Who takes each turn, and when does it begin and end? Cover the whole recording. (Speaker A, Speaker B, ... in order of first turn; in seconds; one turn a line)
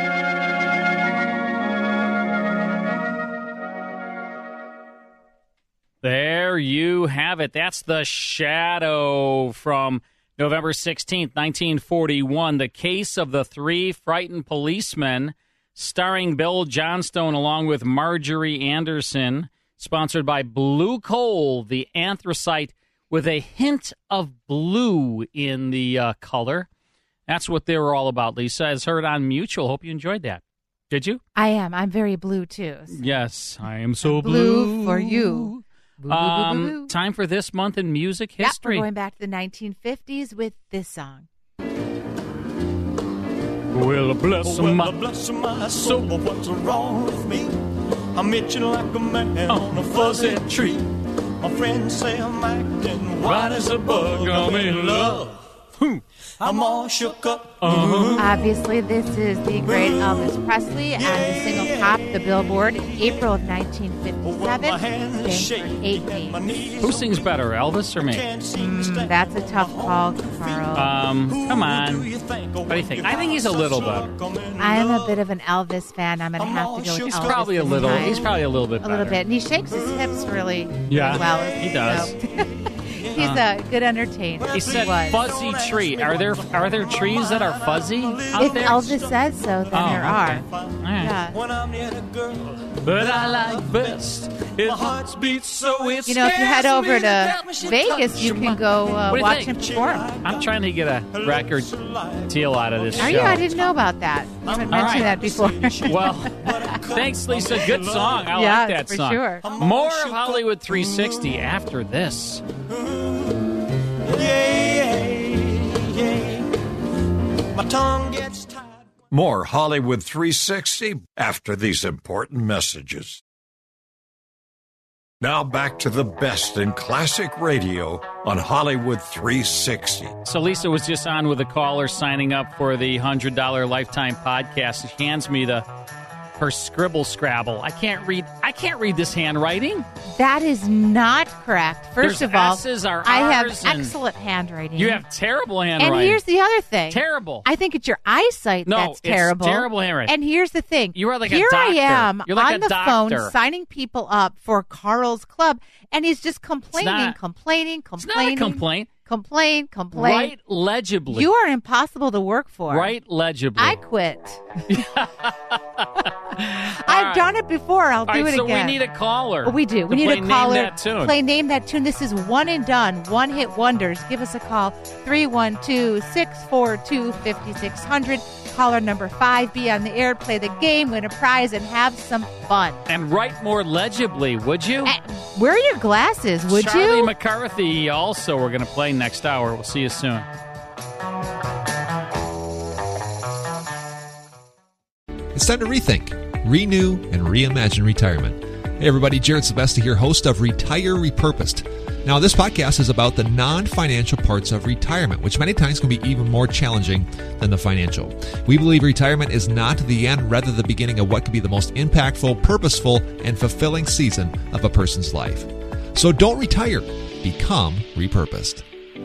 Speaker A: 6.0-26.7
Speaker A: 27.3-31.2
Speaker B: 31.4-33.0
Speaker A: 32.9-38.9
Speaker B: 34.0-36.9
Speaker B: 38.4-41.3
Speaker A: 43.7-45.0
Speaker C: 44.4-47.5
Speaker A: 45.8-46.1
Speaker C: 48.1-50.9
Speaker A: 49.5-50.8
Speaker C: 51.4-55.4
Speaker A: 53.2-55.3
Speaker A: 55.8-56.0
Speaker C: 56.4-58.4
Speaker A: 57.6-58.3
Speaker B: 58.2-66.5
Speaker C: 59.6-63.3
Speaker C: 64.2-67.4
Speaker A: 66.8-68.3
Speaker C: 68.0-75.2
Speaker B: 68.6-70.9
Speaker A: 70.7-72.1
Speaker A: 72.7-74.1
Speaker B: 74.6-82.5
Speaker C: 76.4-78.2
Speaker A: 77.2-79.2
Speaker C: 79.7-80.4
Speaker A: 80.9-82.2
Speaker C: 81.1-81.4
Speaker C: 82.4-83.2
Speaker B: 83.0-85.3
Speaker A: 83.2-83.5
Speaker C: 84.4-89.6
Speaker A: 84.5-88.9
Speaker B: 88.4-91.4
Speaker A: 89.7-91.2
Speaker C: 90.4-98.9
Speaker A: 92.8-96.4
Speaker B: 96.1-100.1
Speaker A: 98.1-99.7
Speaker C: 99.5-100.6
Speaker A: 100.2-101.7
Speaker C: 101.1-103.8
Speaker A: 102.3-103.5
Speaker B: 103.0-106.7
Speaker C: 104.3-108.3
Speaker A: 104.7-105.2
Speaker A: 105.8-112.4
Speaker B: 108.3-109.5
Speaker C: 109.4-111.4
Speaker C: 112.7-113.3
Speaker C: 114.0-116.5
Speaker C: 117.5-118.9
Speaker D: 119.1-123.2
Speaker D: 125.2-130.2
Speaker A: 130.2-135.7
Speaker A: 136.4-139.9
Speaker B: 140.2-145.1
Speaker A: 142.0-143.9
Speaker A: 144.8-146.2
Speaker B: 145.8-160.3
Speaker A: 146.9-147.5
Speaker A: 148.7-150.2
Speaker A: 150.9-153.3
Speaker A: 156.8-157.2
Speaker A: 158.0-158.9
Speaker A: 159.9-161.3
Speaker B: 161.1-162.9
Speaker A: 162.7-163.8
Speaker B: 163.6-164.4
Speaker A: 164.7-167.3
Speaker B: 166.9-168.8
Speaker A: 168.1-171.2
Speaker B: 169.4-182.8
Speaker A: 182.9-184.9
Speaker B: 184.8-187.1
Speaker A: 186.5-190.3
Speaker E: 195.3-218.7